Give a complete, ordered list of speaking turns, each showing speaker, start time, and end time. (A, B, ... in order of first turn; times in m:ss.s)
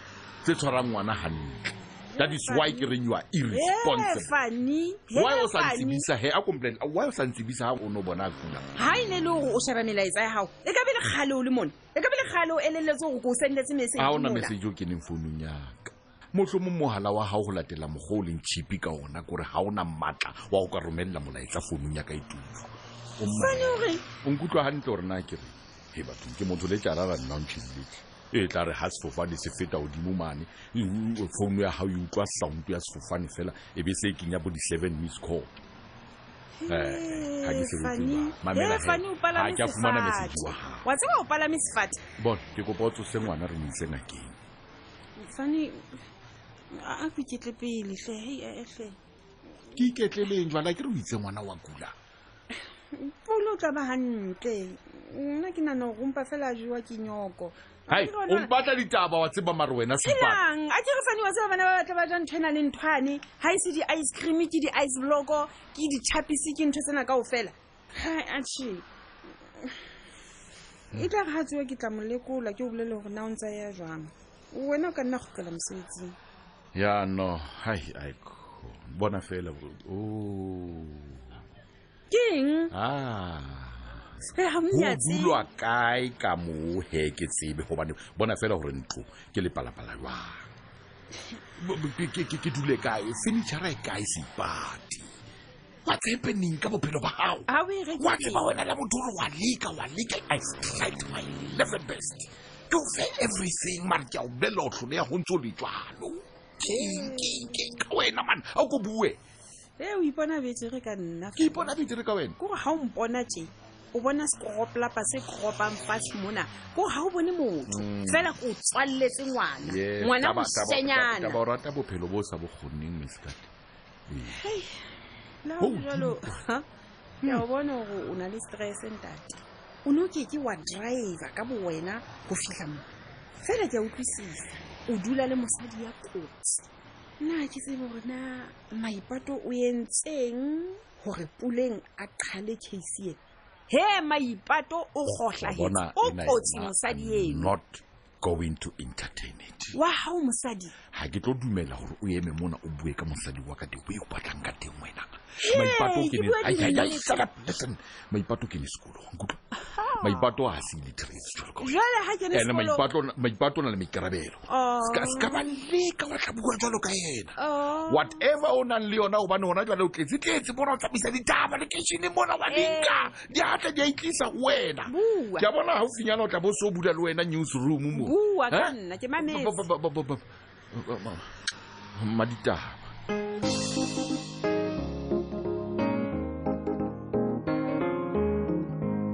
0:00.4-0:04.3 A
0:02.1-0:02.9 B
0:03.5-0:06.0 B
0:05.1-0:08.7 A
0:08.8-0:14.5 B
0:14.0-0:35.5 A
0:23.2-0:24.0 B
0:36.6-0:42.0 B
0:36.7-0:40.9 A
0:42.2-0:44.4 A
0:45.2-0:45.8 B
0:46.7-0:49.0 B
0:49.7-0:51.9 A
0:52.9-0:58.5 B
0:57.9-1:00.4 A
1:00.0-1:08.9 B
1:10.9-1:16.2 B
1:16.7-1:21.4 A
1:22.1-1:22.7 B
1:22.7-1:30.4 A
1:24.3-1:25.4 B
1:31.6-1:35.1 A
1:35.8-1:37.4 A
1:37.5-1:38.4 B
1:38.0-1:49.2 A
1:46.6-1:47.4 B
1:49.8-1:51.7 B
1:51.4-1:52.4 A
1:52.4-2:01.4 B
1:57.7-1:58.4 A
1:59.6-2:03.5 A
2:04.1-2:04.4 A
2:04.3-2:04.8 B
2:05.4-2:06.6 B
2:05.6-2:06.4 A
2:07.2-2:12.8 B
2:13.4-2:16.6 B
2:17.2-2:23.2 B
2:23.7-2:27.5 B
2:25.1-2:29.8 A
2:29.7-2:30.7 B
2:30.9-2:39.4 A
2:35.4-2:37.2 B
2:39.7-2:40.3 B
2:40.0-2:41.7 A
2:41.6-2:42.8 B
2:42.3-2:47.3 A
2:44.5-2:45.4 B
2:47.4-2:48.2 B
2:47.9-3:00.2 A
2:52.5-2:53.1 B
2:54.9-2:55.4 B
2:57.9-2:59.6 B
3:00.7-3:01.2 A
3:02.0-3:02.8 A